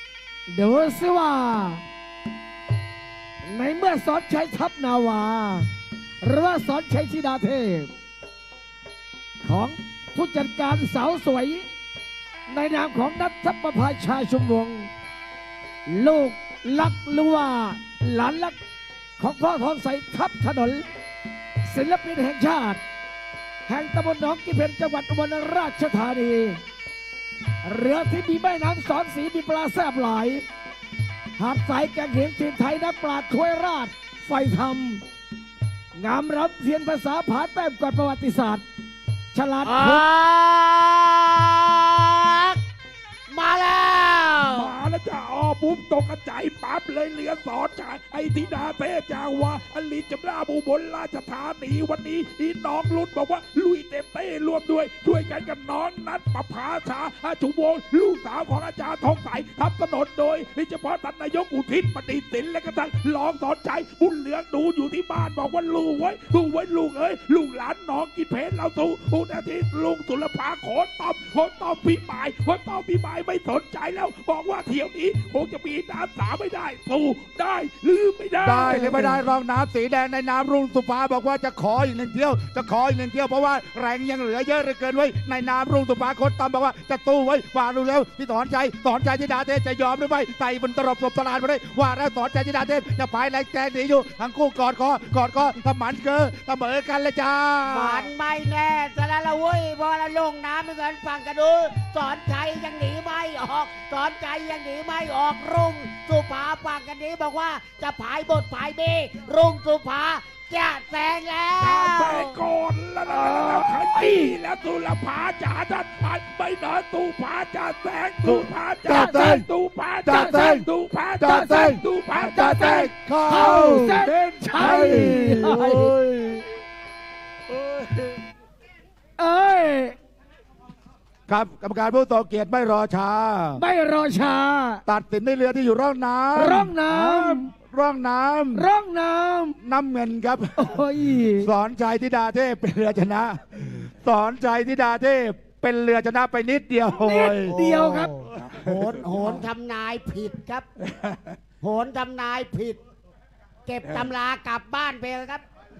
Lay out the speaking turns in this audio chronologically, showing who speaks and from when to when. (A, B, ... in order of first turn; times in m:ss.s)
0:00.5-0:01.8 A
0:03.4-0:05.7 A
0:06.2-0:07.9 A
0:09.4-0:11.6 A
0:12.5-0:14.9 A
0:15.9-0:18.6 A
0:19.2-0:20.8 A
0:21.6-0:22.8 A
0:23.7-0:26.6 A
0:27.6-0:30.4 A
0:31.4-0:35.0 A
0:36.0-0:38.6 A
0:39.3-0:40.1 A
0:39.6-0:42.6 B
0:43.3-0:44.7 B
0:44.5-1:19.2 C
1:18.4-1:38.1 D
1:37.7-1:52.4 B
1:51.6-2:05.4 C
1:53.1-1:54.3 A
1:58.2-1:59.5 D
1:58.9-1:59.3 A
2:00.0-2:00.7 D
2:00.1-2:00.5 A
2:01.2-2:04.0 D
2:01.3-2:05.9 A
2:04.6-2:06.4 D
2:09.2-2:10.0 A
2:11.3-2:13.6 D
2:13.6-2:14.8 A
2:14.8-2:18.7 D
2:16.3-2:17.5 A
2:18.5-2:19.6 A
2:19.6-2:27.6 D
2:20.6-2:21.5 A
2:26.9-2:28.2 A
2:27.5-2:30.6 B
2:28.3-2:29.4 C
2:30.8-2:31.4 C
2:31.6-2:32.8 B
2:33.6-2:35.4 B
2:33.8-2:34.1 C